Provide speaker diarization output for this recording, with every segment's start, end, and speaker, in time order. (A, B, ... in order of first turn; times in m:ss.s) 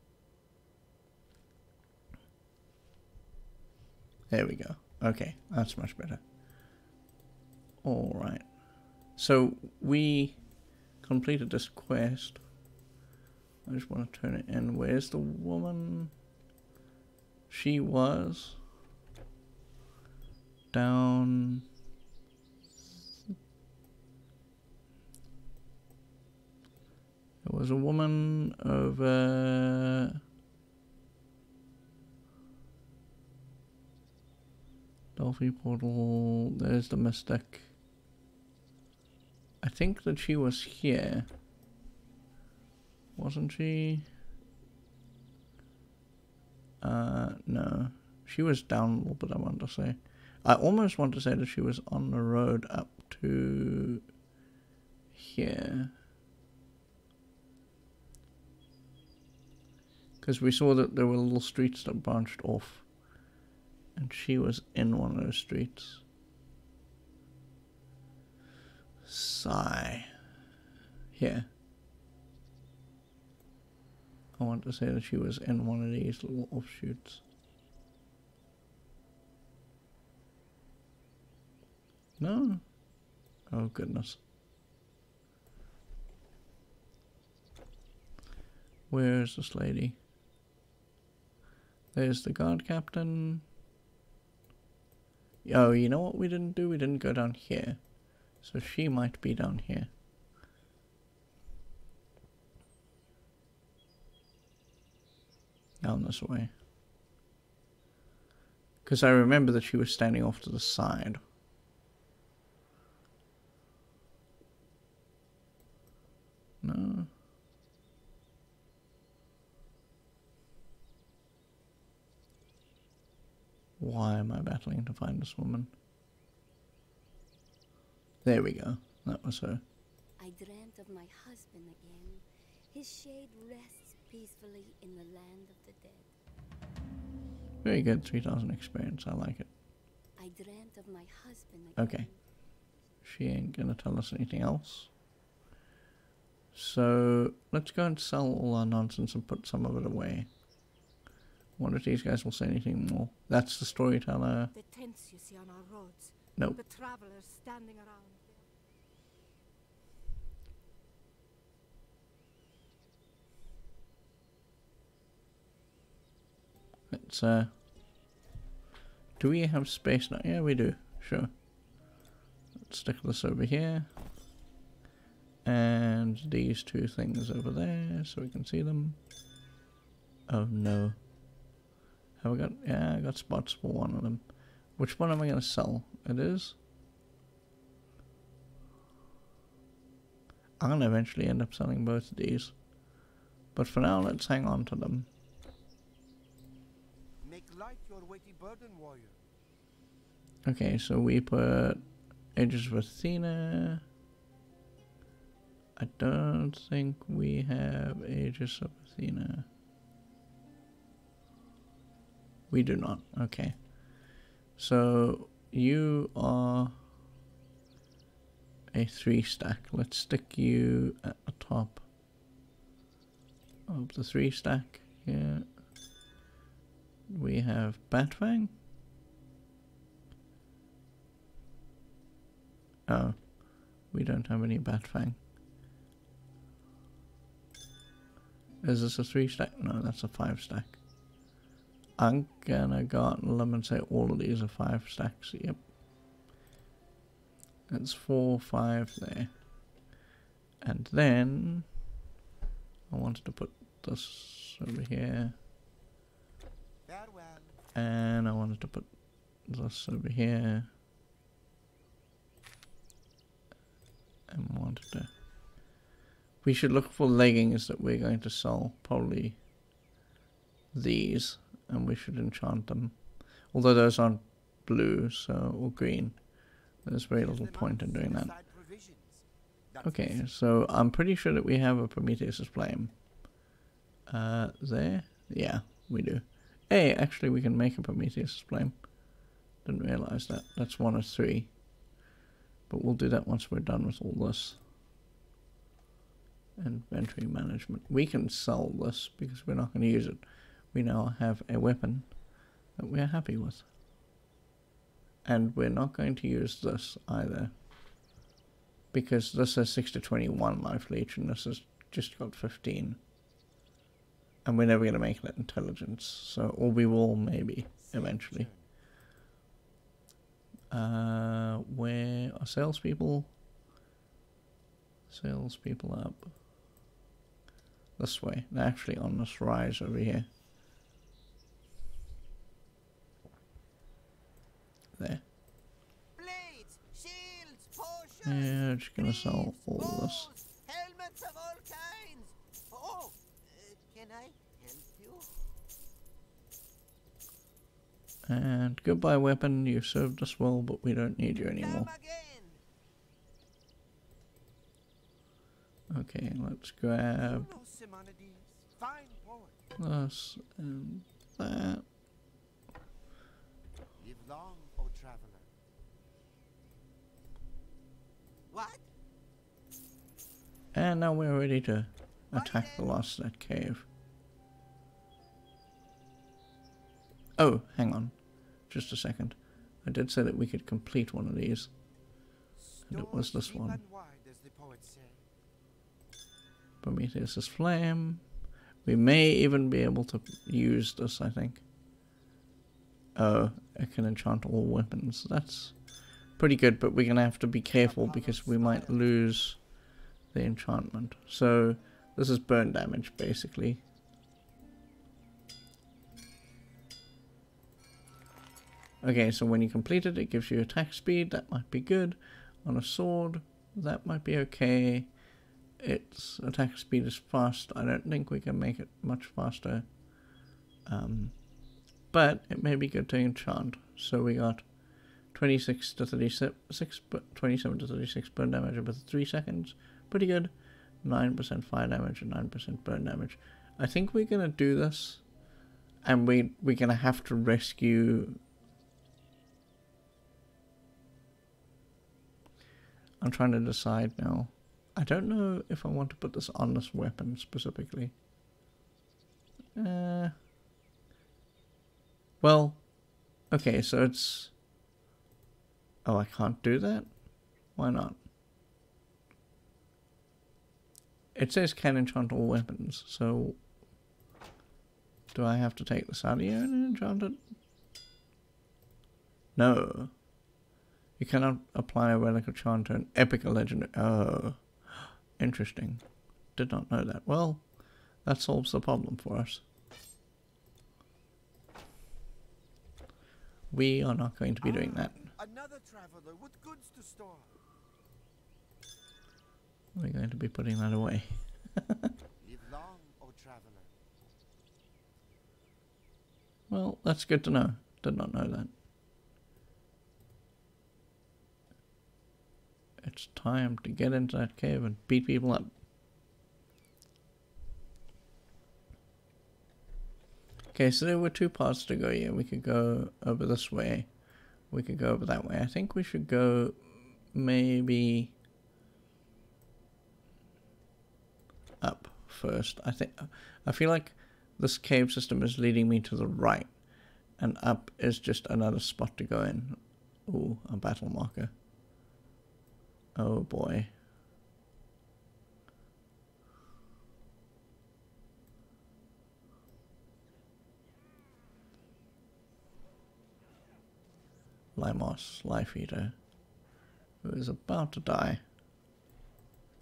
0:04.3-0:06.2 A
0:07.8-0:08.5 A
0:09.1-0:10.4 A
0:11.0-0:12.4 A
0:13.7-0:16.1 A
0:17.5-0:18.6 A
0:20.7-0:21.7 A
0:27.4-0:30.2 A
0:35.2-0:37.7 A
0:39.6-0:41.3 A
0:43.2-0:44.1 A
0:46.8-0:54.0 A
0:55.1-0:55.9 A
1:00.2-1:02.8 A
1:04.0-1:06.0 A
1:09.1-1:10.1 A
1:11.2-1:11.5 A
1:14.4-1:17.2 A
1:22.2-1:22.6 A
1:23.5-1:24.2 A
1:28.9-1:30.0 A
1:31.9-1:33.4 A
1:35.4-1:37.8 A
1:38.4-1:39.9 A
1:45.8-1:46.5 A
1:48.8-1:51.2 A
1:56.6-1:57.1 A
2:03.8-2:05.7 A
2:08.2-2:09.6 A
2:10.2-2:16.1 B
2:17.6-2:19.5 A
2:20.2-2:22.2 B
2:21.8-2:22.1 A
2:23.0-2:24.9 A
2:26.5-2:30.3 A
2:31.6-2:34.5 A
2:34.5-2:38.4 C
2:46.9-2:47.5 A
2:49.2-2:51.3 A
2:52.6-2:53.9 A
2:55.4-2:59.0 A
3:00.3-3:01.0 A
3:02.2-3:04.2 A
3:04.8-3:06.6 A
3:10.6-3:12.6 A
3:13.5-3:15.1 A
3:17.2-3:19.2 D
3:20.4-3:21.8 A
3:22.4-3:23.8 A
3:25.8-3:29.5 A
3:32.5-3:33.6 A
3:34.6-3:36.8 A
3:38.7-3:41.8 A
3:43.7-3:45.5 A
3:47.1-3:48.5 A
3:52.9-3:53.3 A
3:53.9-3:55.2 A
3:58.6-4:00.8 A
4:02.0-4:05.6 A
4:07.7-4:09.3 A
4:10.6-4:11.7 A
4:12.9-4:15.4 A
4:16.9-4:17.6 D
4:17.8-4:18.9 A
4:19.5-4:20.7 A
4:24.3-4:25.1 A
4:26.4-4:29.4 A
4:30.7-4:33.0 A
4:33.5-4:36.2 A
4:36.8-4:38.3 A
4:37.1-4:40.3 D
4:39.8-4:42.9 A
4:44.1-4:48.8 A
4:49.6-4:51.5 A
4:52.7-4:54.6 A
4:56.6-5:02.1 A
5:02.8-5:03.7 A
5:05.2-5:07.5 A
5:08.9-5:13.0 A
5:14.4-5:18.5 A
5:17.8-5:18.7 D
5:20.7-5:23.3 A
5:25.1-5:26.3 A
5:28.0-5:30.3 A
5:35.0-5:35.2 A
5:36.2-5:45.3 D
5:38.2-5:40.3 A
5:48.3-5:51.9 A
5:51.5-5:52.6 D
5:55.9-5:57.5 A
5:57.2-5:59.7 D
5:59.8-6:01.8 A
6:04.0-6:05.5 D
6:08.5-6:08.8 D
6:10.7-6:13.9 A
6:12.3-6:13.0 D
6:17.4-6:18.2 A
6:18.7-6:21.7 A
6:22.6-6:25.2 D
6:22.9-6:23.8 A
6:26.8-6:28.2 A
6:28.8-6:31.6 A
6:33.2-6:35.8 A
6:36.4-6:39.6 A
6:37.7-6:39.4 D
6:40.3-6:43.8 A
6:49.0-6:55.1 A
6:55.8-6:59.9 A
7:00.9-7:01.4 A
7:02.1-7:04.7 A
7:05.3-7:10.5 A
7:11.0-7:15.2 A
7:16.0-7:18.4 A
7:23.2-7:28.1 A
7:29.8-7:30.3 A
7:32.4-7:32.8 A
7:33.5-7:34.5 A
7:36.0-7:37.1 A
7:37.8-7:38.2 A
7:41.4-7:43.6 A
7:45.3-7:47.4 A
7:49.6-7:50.1 A
7:51.2-7:54.6 A
7:55.4-7:56.0 A
7:56.6-7:57.6 A
7:58.2-7:59.6 A
8:03.7-8:05.3 A
8:04.6-8:07.6 D
8:10.0-8:12.1 A
8:12.4-8:13.9 D
8:16.7-8:18.7 A
8:23.0-8:25.7 A
8:30.7-8:34.1 A
8:34.7-8:38.3 A
8:41.8-8:46.7 A
8:47.4-8:51.5 A
8:53.2-8:53.9 A
9:04.8-9:06.2 A
9:07.2-9:08.4 A